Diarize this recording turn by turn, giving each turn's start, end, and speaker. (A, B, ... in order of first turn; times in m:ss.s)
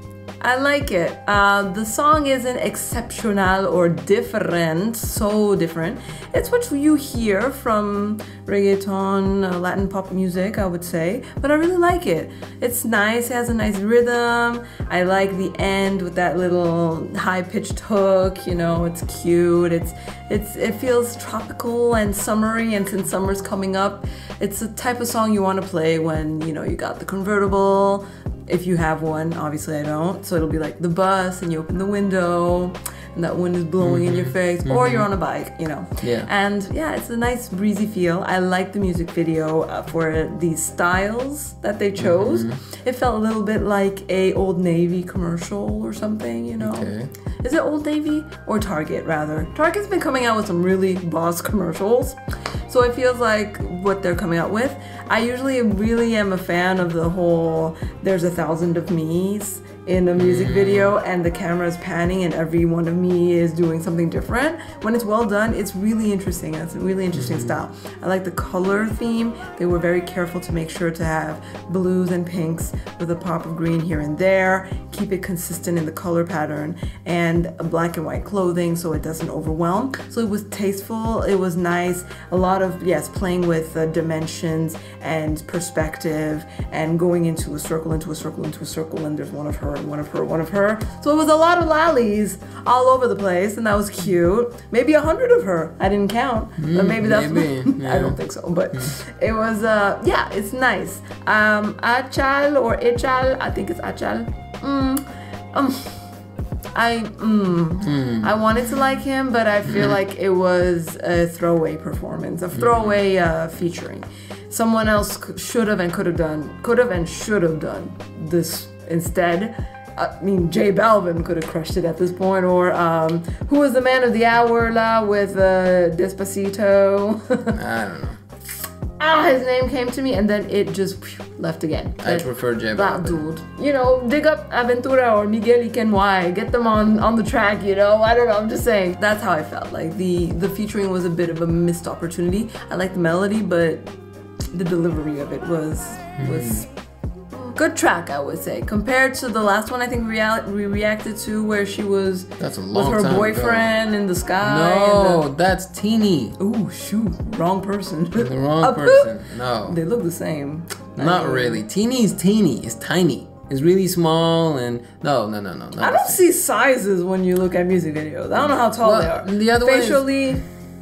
0:00.4-1:46.0 A
0:33.8-0:35.1 B
0:36.0-0:36.3 B
0:42.0-0:42.6 B
0:46.6-0:47.1 B
1:00.2-1:01.0 B
1:07.1-1:07.6 B
1:36.6-1:38.2 B
1:46.7-2:07.6 A
1:47.8-1:48.3 B
1:52.6-1:53.0 B
2:07.5-2:08.2 B
2:09.0-2:23.9 A
2:12.0-2:13.3 B
2:24.5-2:26.7 A
2:26.2-2:26.7 B
2:27.3-2:35.2 A
2:32.4-2:33.8 B
2:34.4-2:36.4 B
2:36.4-2:41.6 A
2:38.2-2:39.8 B
2:41.0-2:46.2 B
2:45.8-2:50.4 A
2:48.7-2:50.4 B